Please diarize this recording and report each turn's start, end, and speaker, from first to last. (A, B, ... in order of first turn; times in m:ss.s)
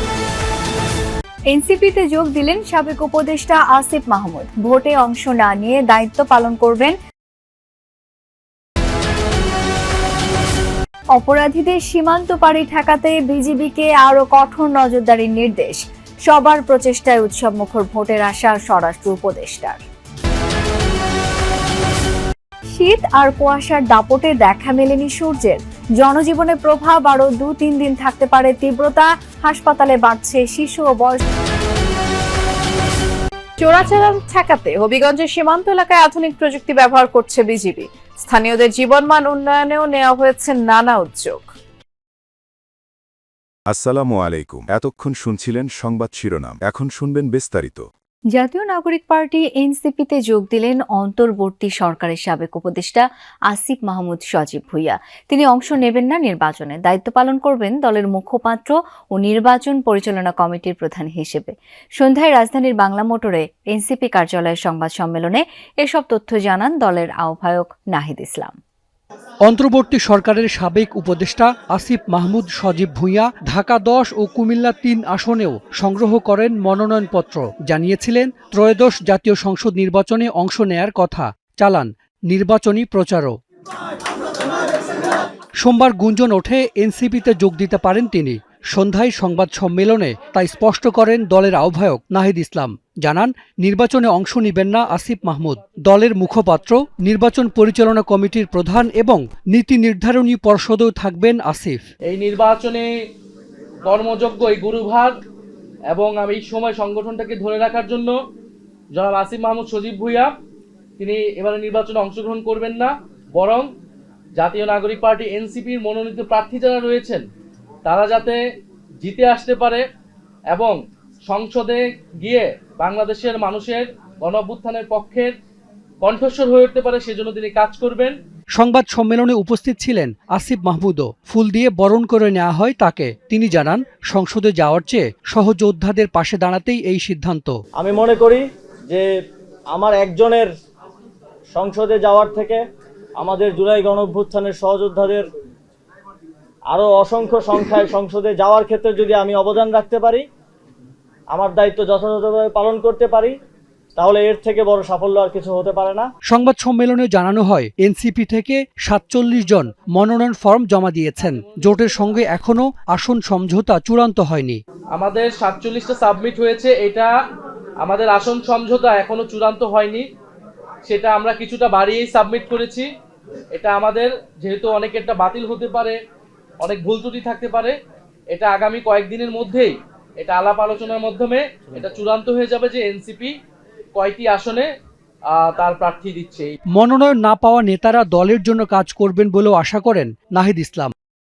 0:01.5-0:07.0 A
0:11.1-0:19.8 A
0:22.7-0:31.2 A
0:33.6-0:41.5 B
0:43.7-0:47.8 C
0:48.3-1:08.6 A
1:09.5-1:23.4 D
1:25.6-1:41.8 D
1:42.1-1:42.9 E
1:43.8-1:45.1 E
1:45.9-1:48.1 E
1:48.9-1:50.3 E
1:51.0-1:53.7 E
1:54.4-1:57.2 E
1:57.9-1:58.4 E
1:59.0-1:59.8 E
2:00.5-2:05.3 E
2:06.0-2:08.1 E
2:08.6-2:17.6 D
2:17.8-2:19.1 F
2:19.7-2:20.5 F
2:21.5-2:22.6 F
2:23.2-2:25.2 F
2:26.7-2:30.2 F
2:31.3-2:33.4 F
2:34.0-2:36.1 F
2:36.3-2:44.6 D
2:41.2-2:41.8 E
2:44.9-2:47.1 E
2:47.8-2:50.0 E
2:50.8-2:52.9 E
2:53.6-2:56.0 E
2:56.6-2:57.8 E
2:58.3-3:03.3 E
3:04.0-3:04.7 E
3:05.3-3:06.6 E
3:06.8-3:10.9 D